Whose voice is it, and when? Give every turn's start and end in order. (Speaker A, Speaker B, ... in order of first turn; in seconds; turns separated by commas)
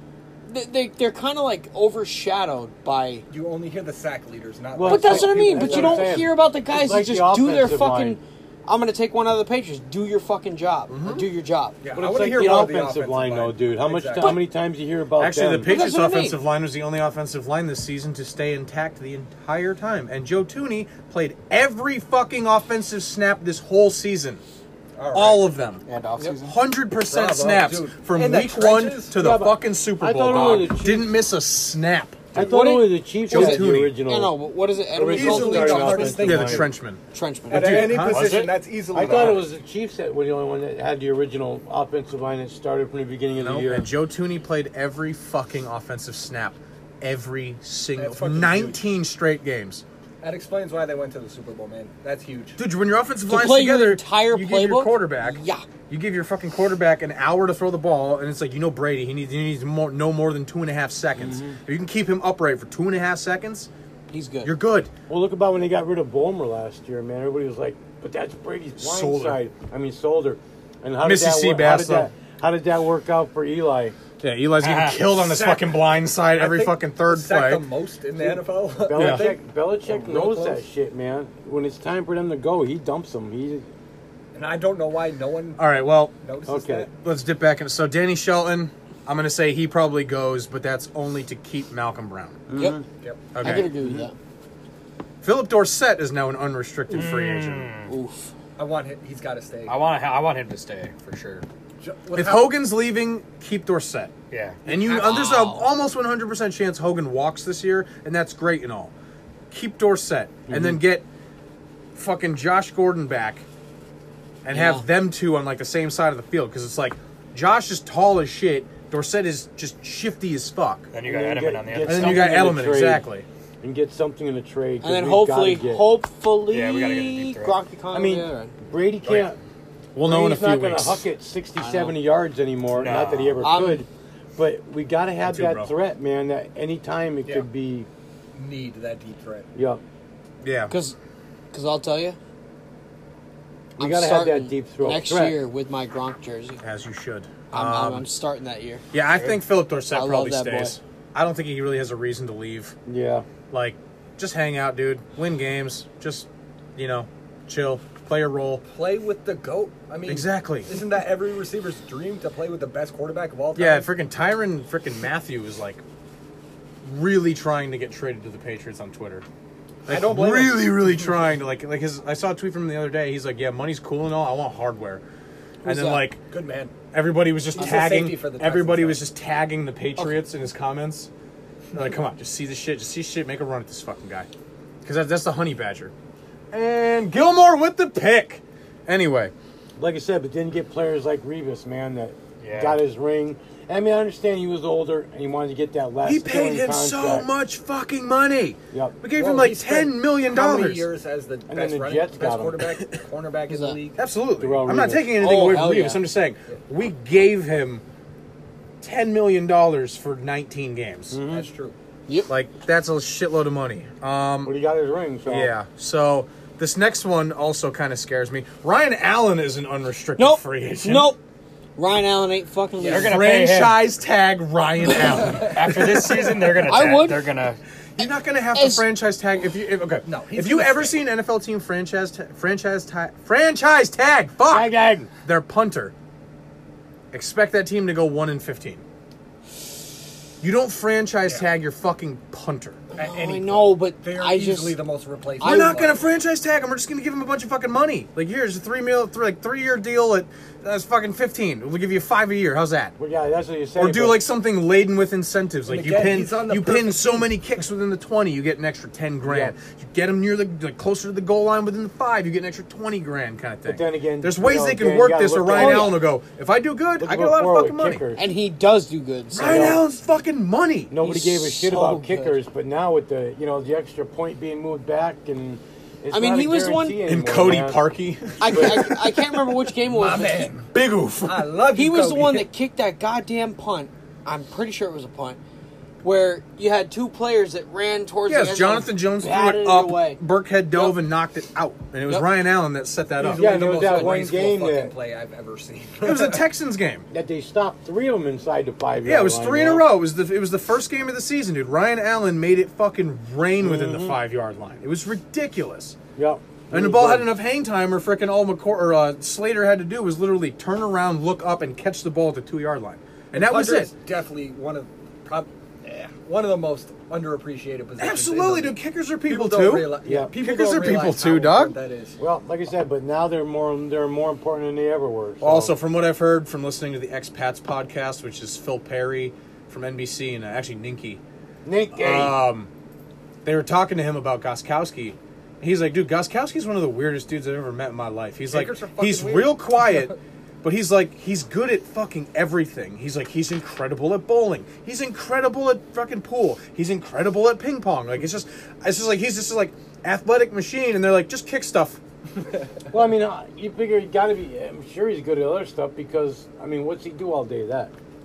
Speaker A: 0.5-3.2, Speaker B: 3.3-6.2, Speaker C: 4.7-8.2, Speaker A: 4.8-11.8, Speaker D: 10.9-11.3, Speaker B: 11.8-14.4, Speaker C: 11.9-15.8, Speaker D: 15.2-24.4, Speaker A: 15.6-16.4, Speaker B: 25.0-25.5, Speaker D: 25.1-25.8, Speaker E: 25.9-26.5, Speaker A: 26.1-26.4, Speaker D: 26.4-32.5, Speaker B: 27.0-29.1, Speaker C: 29.1-31.1, Speaker C: 32.3-34.4, Speaker A: 32.3-36.5, Speaker D: 33.3-34.0, Speaker C: 34.9-36.7, Speaker B: 35.1-36.7, Speaker D: 36.2-38.3, Speaker A: 37.1-37.9, Speaker B: 37.5-39.5, Speaker E: 38.0-38.5, Speaker C: 38.9-43.9, Speaker D: 43.4-49.8, Speaker B: 48.0-48.8, Speaker B: 50.2-52.6, Speaker D: 52.6-63.7, Speaker A: 53.2-55.6, Speaker C: 61.2-61.6, Speaker A: 64.1-64.5, Speaker D: 64.4-64.9, Speaker C: 65.1-74.0, Speaker D: 68.8-69.4, Speaker D: 71.0-72.1, Speaker D: 74.2-77.7, Speaker E: 74.6-75.1, Speaker B: 75.1-80.6, Speaker C: 78.3-83.7, Speaker D: 79.0-79.3, Speaker B: 84.3-85.7, Speaker D: 85.6-86.1, Speaker B: 86.2-86.9, Speaker C: 86.5-86.9, Speaker D: 87.0-92.4, Speaker C: 92.5-92.8, Speaker A: 92.5-92.8, Speaker B: 93.0-93.3, Speaker D: 93.3-93.7, Speaker A: 93.3-94.1, Speaker C: 93.8-94.1, Speaker D: 95.2-97.7, Speaker E: 96.9-97.9, Speaker A: 97.9-98.3, Speaker B: 98.6-99.8, Speaker E: 99.7-101.4, Speaker B: 101.8-102.6, Speaker D: 102.1-104.1, Speaker E: 104.3-104.6, Speaker B: 104.6-105.5, Speaker D: 104.7-108.9, Speaker A: 104.9-105.7, Speaker D: 109.5-111.0, Speaker C: 110.5-110.8, Speaker D: 111.9-113.4, Speaker D: 114.4-120.9, Speaker A: 114.5-114.8, Speaker E: 120.9-122.5, Speaker C: 121.0-123.0, Speaker D: 121.8-123.2, Speaker C: 123.6-125.8, Speaker A: 124.8-128.5, Speaker E: 126.5-127.5, Speaker C: 127.9-129.4, Speaker D: 129.9-131.0, Speaker C: 130.0-137.9, Speaker A: 131.6-131.9, Speaker E: 132.7-133.4, Speaker A: 133.4-133.8, Speaker D: 135.2-135.7, Speaker B: 138.3-139.5, Speaker C: 139.5-139.8, Speaker D: 140.4-140.7, Speaker A: 140.7-140.9, Speaker A: 141.5-142.2, Speaker C: 143.8-145.4, Speaker A: 143.8-146.6, Speaker D: 146.6-148.1, Speaker A: 147.5-148.8, Speaker D: 148.9-152.8, Speaker E: 149.2-149.4, Speaker A: 149.9-150.8, Speaker C: 152.8-153.3, Speaker D: 153.5-158.6, Speaker B: 158.6-163.9, Speaker D: 160.1-160.8, Speaker D: 163.6-165.8, Speaker D: 166.8-169.2, Speaker B: 169.8-171.0, Speaker D: 169.9-175.0, Speaker D: 175.6-176.2, Speaker B: 175.6-176.8, Speaker D: 176.9-181.1, Speaker B: 177.5-179.0, Speaker D: 181.7-184.3, Speaker D: 184.8-185.9, Speaker D: 186.5-189.3, Speaker C: 189.8-197.3, Speaker E: 192.4-192.8, Speaker D: 196.0-200.9, Speaker C: 198.7-199.0, Speaker B: 199.1-204.0, Speaker C: 201.5-202.6, Speaker A: 203.5-203.8, Speaker D: 204.0-207.8, Speaker C: 204.4-205.2, Speaker A: 205.2-206.0, Speaker D: 208.8-211.2, Speaker C: 211.1-211.4, Speaker B: 211.3-211.8, Speaker D: 212.3-214.6, Speaker C: 214.4-215.5, Speaker D: 215.3-221.1, Speaker A: 220.2-221.2, Speaker A: 221.8-223.2, Speaker E: 222.8-223.8, Speaker D: 222.9-226.2, Speaker B: 225.2-225.5, Speaker E: 225.3-227.6, Speaker A: 226.6-227.3, Speaker D: 227.9-235.9, Speaker A: 228.5-228.8, Speaker B: 230.0-231.0, Speaker C: 234.5-235.1, Speaker D: 237.1-238.8, Speaker D: 240.4-242.9, Speaker A: 242.9-244.8, Speaker B: 242.9-246.0, Speaker A: 245.4-245.8, Speaker D: 245.4-252.9, Speaker C: 253.0-254.2, Speaker D: 253.8-268.0, Speaker B: 255.7-257.3, Speaker C: 259.2-259.5, Speaker C: 263.6-266.0, Speaker A: 265.5-266.0, Speaker C: 267.0-268.3, Speaker A: 268.1-269.8, Speaker D: 269.3-270.9, Speaker C: 269.3-269.8, Speaker C: 270.9-277.8, Speaker A: 271.0-272.4, Speaker A: 276.1-277.0, Speaker D: 277.1-279.6, Speaker A: 278.4-280.5, Speaker C: 278.5-278.8, Speaker B: 279.9-280.7, Speaker D: 280.7-281.5, Speaker B: 281.2-282.5, Speaker A: 281.7-285.4, Speaker A: 286.0-290.2, Speaker D: 288.3-293.6, Speaker A: 292.1-292.3, Speaker B: 293.2-296.4, Speaker C: 293.2-294.9, Speaker D: 296.0-297.1, Speaker C: 297.1-299.9, Speaker D: 299.0-306.0, Speaker C: 303.6-304.2, Speaker C: 306.1-307.3, Speaker D: 306.7-313.9, Speaker B: 313.3-322.1, Speaker D: 318.0-321.7, Speaker C: 320.0-320.3, Speaker C: 322.2-325.7, Speaker D: 325.4-331.2, Speaker C: 331.6-332.4, Speaker D: 331.9-332.7, Speaker D: 333.4-352.0, Speaker B: 338.5-340.1, Speaker C: 352.9-357.9